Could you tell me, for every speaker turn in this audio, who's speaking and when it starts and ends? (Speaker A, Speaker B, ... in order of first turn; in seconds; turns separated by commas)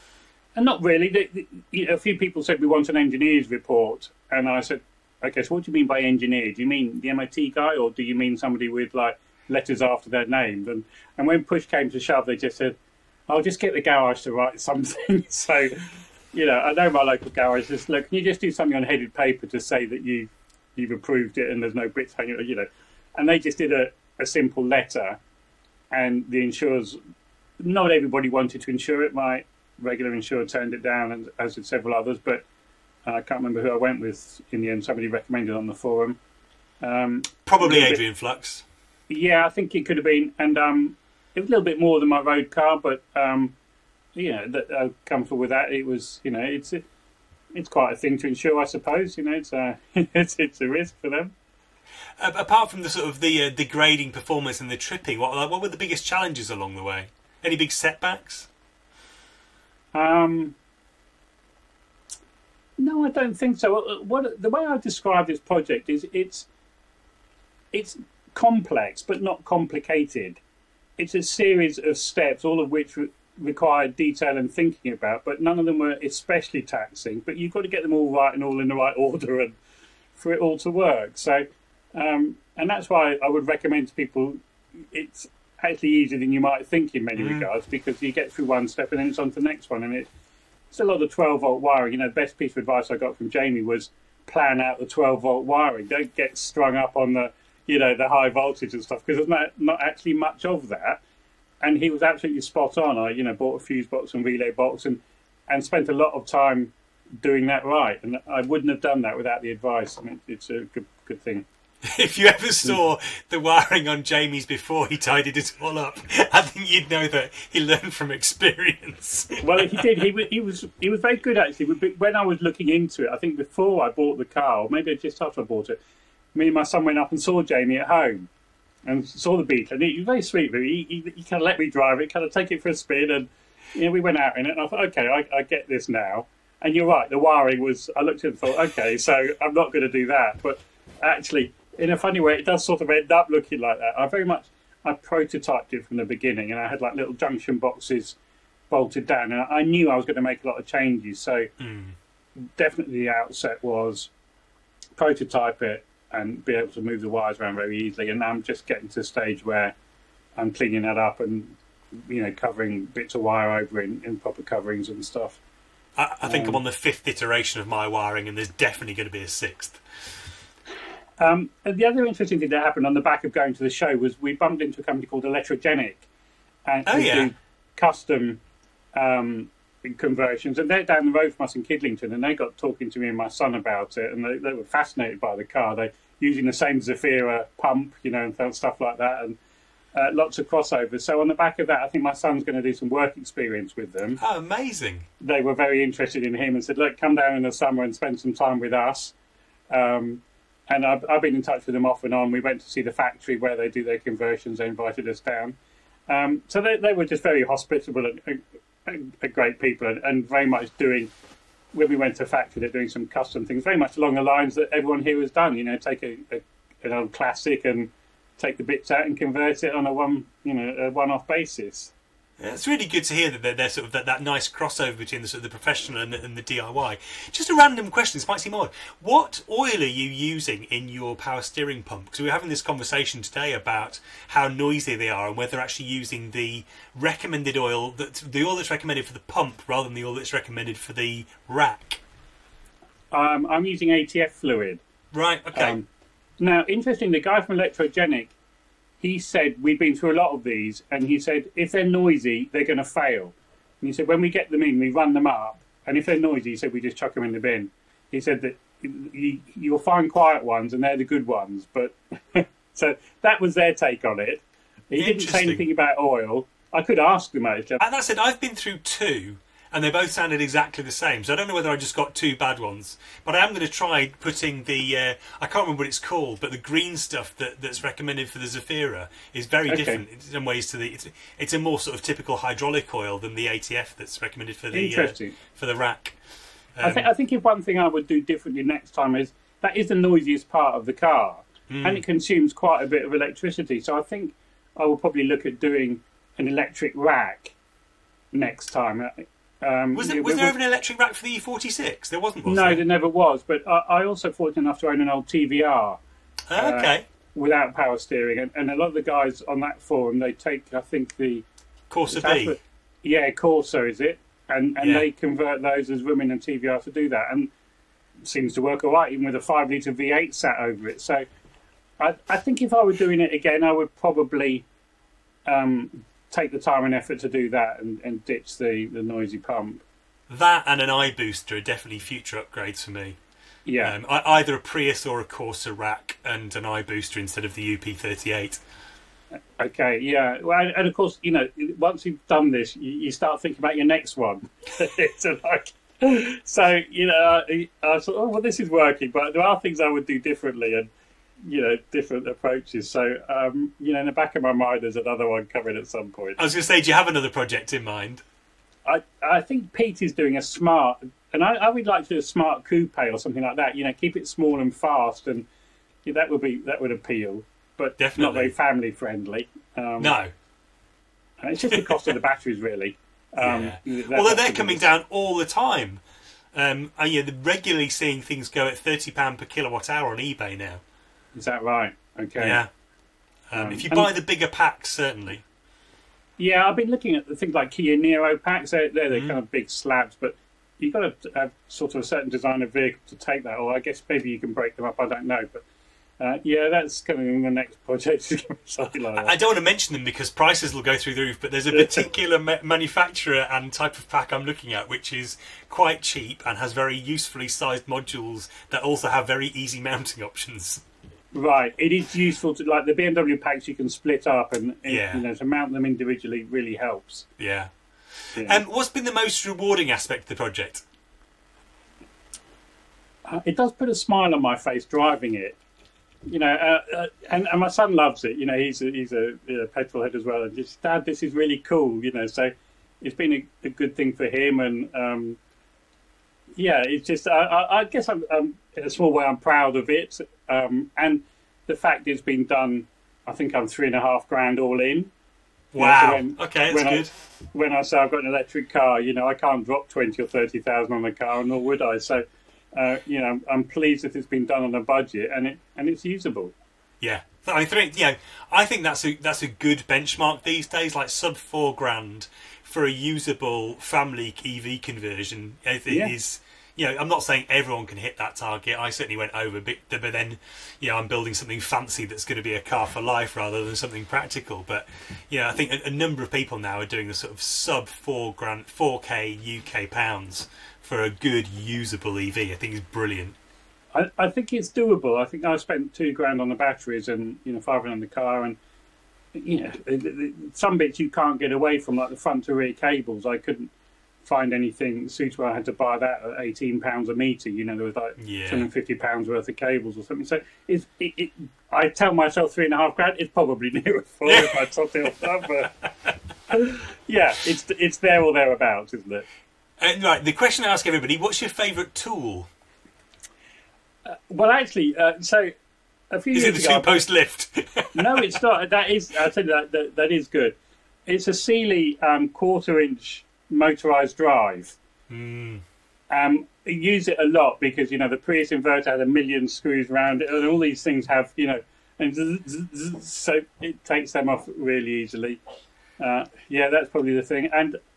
Speaker A: 0.6-12.8, Speaker A: 13.3-25.2, Speaker A: 25.9-27.0, Speaker A: 27.6-32.5, Speaker A: 33.0-36.2, Speaker A: 36.8-38.0, Speaker B: 37.5-38.6, Speaker A: 39.1-43.5, Speaker A: 44.1-46.8, Speaker A: 47.5-51.3, Speaker B: 52.2-58.5, Speaker A: 59.9-60.6, Speaker A: 62.8-66.5, Speaker A: 67.7-70.4, Speaker A: 71.0-79.6, Speaker A: 80.2-90.1, Speaker B: 87.2-87.5, Speaker A: 90.7-101.0, Speaker A: 101.6-111.5, Speaker B: 111.8-120.0, Speaker A: 119.4-125.8, Speaker A: 126.3-128.3, Speaker A: 128.8-148.2, Speaker A: 148.7-151.5, Speaker B: 151.6-152.0, Speaker A: 152.6-154.1, Speaker A: 155.0-159.8, Speaker A: 160.4-165.4, Speaker B: 166.0-169.8, Speaker A: 166.2-166.6, Speaker A: 171.2-176.1, Speaker A: 176.7-178.4, Speaker B: 176.9-177.3, Speaker A: 178.9-189.4, Speaker A: 189.9-194.2, Speaker B: 194.2-195.1, Speaker A: 195.2-199.1, Speaker A: 199.7-205.6, Speaker A: 206.1-211.1, Speaker A: 211.7-221.9, Speaker B: 222.4-242.0, Speaker A: 243.1-244.8, Speaker B: 245.1-245.8, Speaker A: 245.5-245.9, Speaker A: 246.4-248.3, Speaker A: 249.0-267.8, Speaker B: 265.0-265.6, Speaker B: 267.8-286.2, Speaker A: 279.7-280.0, Speaker A: 284.7-285.4, Speaker B: 286.8-287.1, Speaker A: 286.8-297.6, Speaker B: 291.7-292.0, Speaker A: 298.3-300.6, Speaker B: 299.9-302.8, Speaker A: 302.5-306.0, Speaker B: 306.5-307.1, Speaker A: 306.6-311.5, Speaker B: 311.9-312.6, Speaker A: 312.1-317.5, Speaker B: 314.8-315.1, Speaker A: 318.2-321.3, Speaker A: 322.0-324.7, Speaker A: 325.5-329.8, Speaker B: 330.3-333.2, Speaker A: 333.7-334.0, Speaker B: 333.8-338.6, Speaker A: 339.6-350.9, Speaker A: 351.4-356.4, Speaker B: 356.4-358.2, Speaker A: 358.9-365.5, Speaker A: 366.1-370.1, Speaker B: 368.0-368.5, Speaker B: 370.0-370.3, Speaker A: 371.4-374.9, Speaker B: 373.4-376.0, Speaker B: 376.5-380.8, Speaker A: 381.3-382.6, Speaker B: 382.4-382.7, Speaker B: 383.5-385.4, Speaker A: 383.6-384.1, Speaker A: 386.4-395.6, Speaker B: 389.1-389.4, Speaker A: 396.2-399.4, Speaker B: 399.2-410.8, Speaker A: 401.7-402.1, Speaker A: 411.3-417.3, Speaker B: 414.9-415.2, Speaker B: 417.4-417.7, Speaker B: 418.2-420.8, Speaker A: 423.3-425.6, Speaker A: 426.3-435.4, Speaker A: 436.6-445.1, Speaker B: 445.7-447.1, Speaker A: 445.8-456.5, Speaker B: 457.0-483.4, Speaker A: 465.9-466.1, Speaker A: 483.9-488.6, Speaker A: 489.3-493.7, Speaker A: 494.2-505.7, Speaker B: 498.2-498.7, Speaker B: 504.3-506.1, Speaker A: 506.5-509.2, Speaker B: 509.8-512.5, Speaker A: 514.1-515.5, Speaker A: 516.1-517.0, Speaker B: 516.3-518.3, Speaker A: 518.0-524.8, Speaker B: 525.1-525.6, Speaker A: 526.1-535.4, Speaker A: 536.0-537.8